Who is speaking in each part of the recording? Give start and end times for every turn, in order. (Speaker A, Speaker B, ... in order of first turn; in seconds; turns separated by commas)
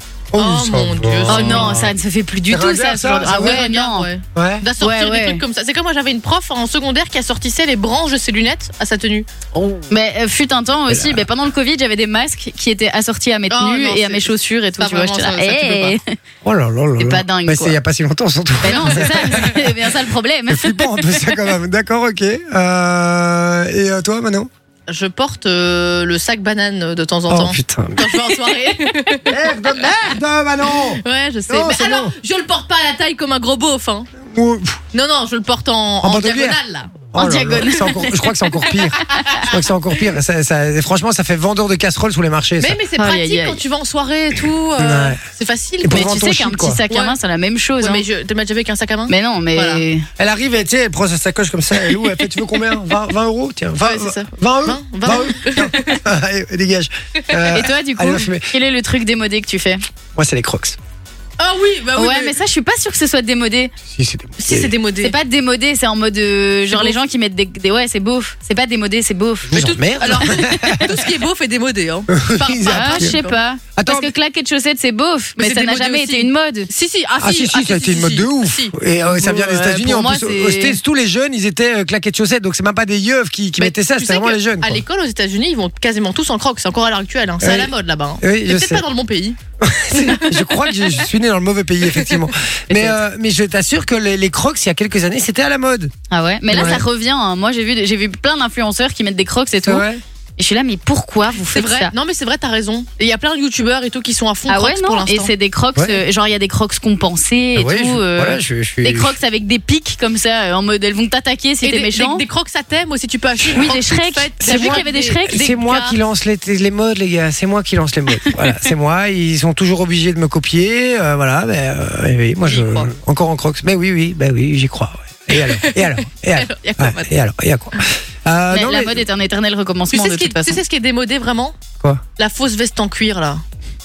Speaker A: 0.3-1.9, Speaker B: 0.3-1.8, Speaker C: 1.3-4.1, Speaker A: 2.5-3.6, Speaker B: 3.2-9.3, Speaker A: 4.3-4.7, Speaker C: 4.8-5.4, Speaker A: 9.5-9.9, Speaker C: 9.9-16.1, Speaker A: 10.9-11.2, Speaker B: 13.5-16.0, Speaker A: 16.4-19.7, Speaker C: 17.0-17.8, Speaker C: 18.6-21.2, Speaker B: 18.6-19.5, Speaker A: 20.5-24.5, Speaker B: 24.9-29.9, Speaker A: 27.3-28.1, Speaker A: 29.2-32.1, Speaker B: 30.7-34.1, Speaker A: 34.2-34.8, Speaker B: 34.9-37.0, Speaker A: 36.0-36.6, Speaker A: 37.1-42.8, Speaker C: 37.1-39.4, Speaker B: 38.7-40.1, Speaker B: 42.6-46.1, Speaker C: 43.0-43.6, Speaker A: 44.8-45.2, Speaker A: 45.8-46.8, Speaker C: 45.9-48.0, Speaker B: 46.9-47.1, Speaker B: 47.8-49.9, Speaker C: 49.1-50.1, Speaker A: 50.2-58.5, Speaker B: 51.8-52.2, Speaker B: 53.8-56.0, Speaker C: 57.5-59.8, Speaker A: 60.1-60.8, Speaker B: 61.4-62.4, Speaker C: 61.9-63.7, Speaker A: 63.9-64.7, Speaker B: 64.4-65.2, Speaker C: 65.0-70.8, Speaker B: 66.7-67.0, Speaker A: 69.5-71.0, Speaker B: 69.5-73.4, Speaker A: 72.1-73.2, Speaker C: 72.7-76.7, Speaker A: 73.8-74.1, Speaker B: 75.4-78.7, Speaker A: 77.2-84.8, Speaker C: 79.0-80.8, Speaker B: 83.6-89.4, Speaker A: 87.4-88.8, Speaker A: 89.6-95.9, Speaker B: 89.9-90.9, Speaker B: 91.8-92.2, Speaker C: 96.1-101.9, Speaker A: 96.5-96.8, Speaker A: 99.6-100.0, Speaker B: 101.5-105.3, Speaker C: 104.5-112.2, Speaker A: 105.8-106.0, Speaker A: 107.5-109.2, Speaker B: 111.6-116.0, Speaker C: 113.5-115.5, Speaker A: 114.4-129.0, Speaker B: 122.4-122.9, Speaker B: 125.3-127.1, Speaker C: 128.5-130.6, Speaker B: 129.9-131.5, Speaker B: 132.2-133.4